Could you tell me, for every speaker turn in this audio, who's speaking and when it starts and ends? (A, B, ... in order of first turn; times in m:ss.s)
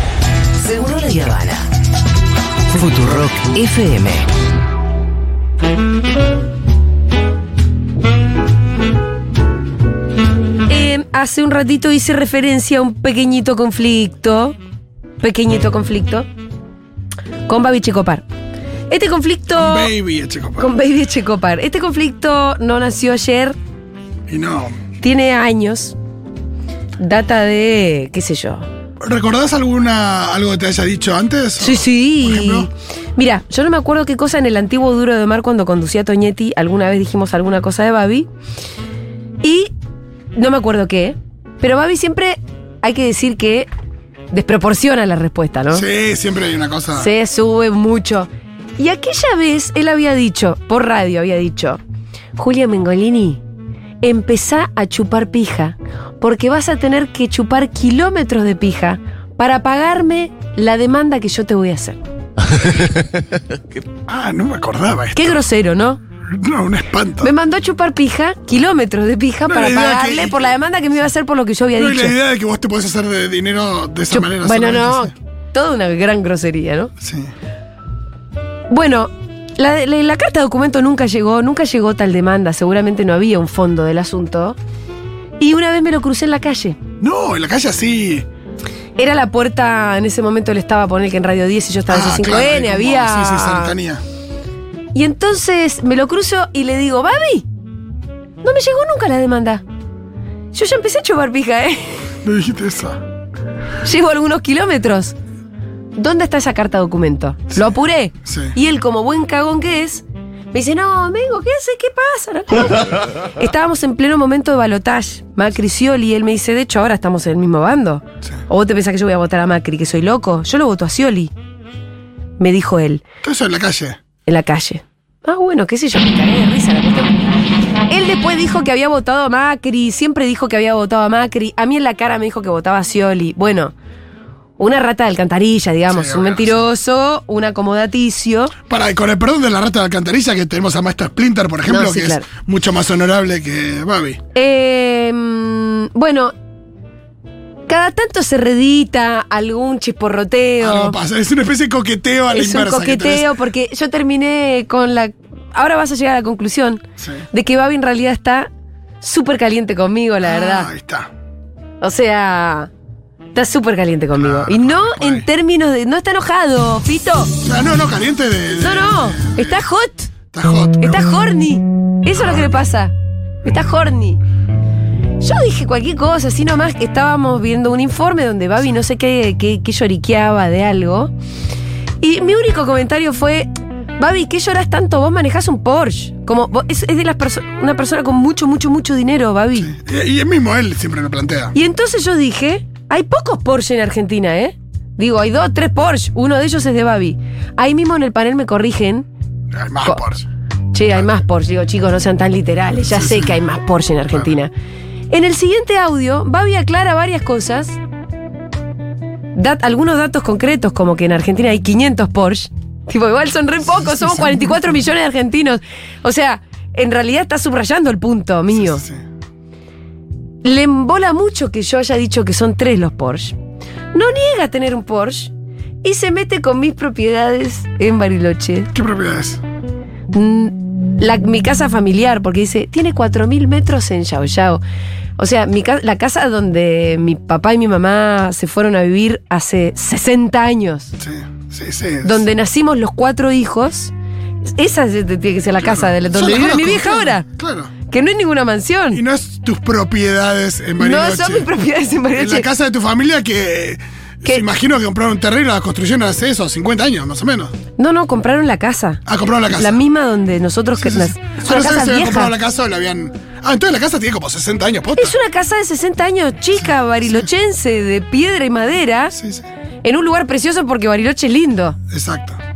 0:00.6-0:01.6 A
0:02.7-0:04.2 A
0:10.7-0:14.6 B
0:15.2-0:16.3 B
0:17.5-0:18.2 B
0:18.9-0:19.9 B
0:19.5-0:20.7 C
0:20.6-0:23.6 B
0:24.3-0:24.8 C
0:25.0-0:26.0 B
0:27.0-0:28.6 B
0:29.0-0:32.7 C
0:31.6-0:38.3 B
0:39.4-0:39.7 B
0:40.3-0:43.7 B
0:44.3-0:45.8 B
0:45.7-0:47.1 C
0:46.9-0:51.8 B
0:52.4-0:53.4 B
0:54.0-1:02.0 B
1:04.1-1:05.4 C
1:05.1-1:06.0 B
1:06.3-1:07.3 C
1:07.2-1:12.2 B
1:09.5-1:10.5 C
1:11.8-1:15.1 C
1:14.1-1:16.9 B
1:17.0-1:17.3 C
1:18.7-1:24.6 B
1:25.4-1:26.8 B
1:27.0-1:28.2 C
1:29.0-1:33.7 B
1:31.9-1:34.0 C
1:34.9-1:37.4 B
1:38.4-1:39.6 B
1:40.5-1:42.1 B
1:42.2-1:43.0 C
1:43.8-1:45.1 B
1:45.9-2:01.3 B
1:48.2-1:48.5 C
2:02.4-2:03.0 B
2:03.2-2:04.0 C
2:04.2-2:07.2 B
2:07.9-2:13.7 B
2:14.6-2:18.5 B
2:15.9-2:16.6 C
2:18.7-2:24.2 C
2:21.7-2:22.2 B
2:24.3-2:26.3 B
2:27.7-2:31.0 B
2:30.6-2:33.4 C
2:32.3-2:38.5 B
2:37.0-2:37.2 C
2:39.0-2:40.7 B
2:40.2-2:41.1 C
2:41.8-2:42.7 B
2:43.3-2:47.3 B
2:44.2-2:45.2 C
2:47.4-2:49.6 C
2:48.6-2:50.1 B
2:50.3-2:51.1 C
2:50.8-2:54.2 B
2:52.1-2:52.6 C
2:55.2-3:01.1 B
3:02.0-3:09.7 B
3:09.6-3:11.5 C
3:11.5-3:19.1 B
3:19.5-3:20.3 C
3:20.7-3:24.5 B
3:22.9-3:23.3 C
3:25.1-3:27.8 B
3:29.3-3:38.8 B
3:38.6-3:39.0 C
3:40.4-3:43.4 B
3:43.9-3:45.3 B
3:45.8-3:48.7 B
3:48.7-3:49.4 C
3:50.1-3:54.6 B
3:55.2-4:00.9 B
4:01.0-4:02.2 C
4:02.0-4:03.9 B
4:04.5-4:07.3 B
4:05.6-4:07.7 C
4:07.9-4:09.0 B
4:08.9-4:11.5 C
4:10.8-4:12.5 B
4:12.1-4:17.5 C
4:17.8-4:22.3 B
4:19.0-4:19.8 C
4:20.8-4:25.1 C
4:25.0-4:29.1 B
4:29.1-4:29.4 C
4:29.8-4:31.8 B
4:31.9-4:32.4 C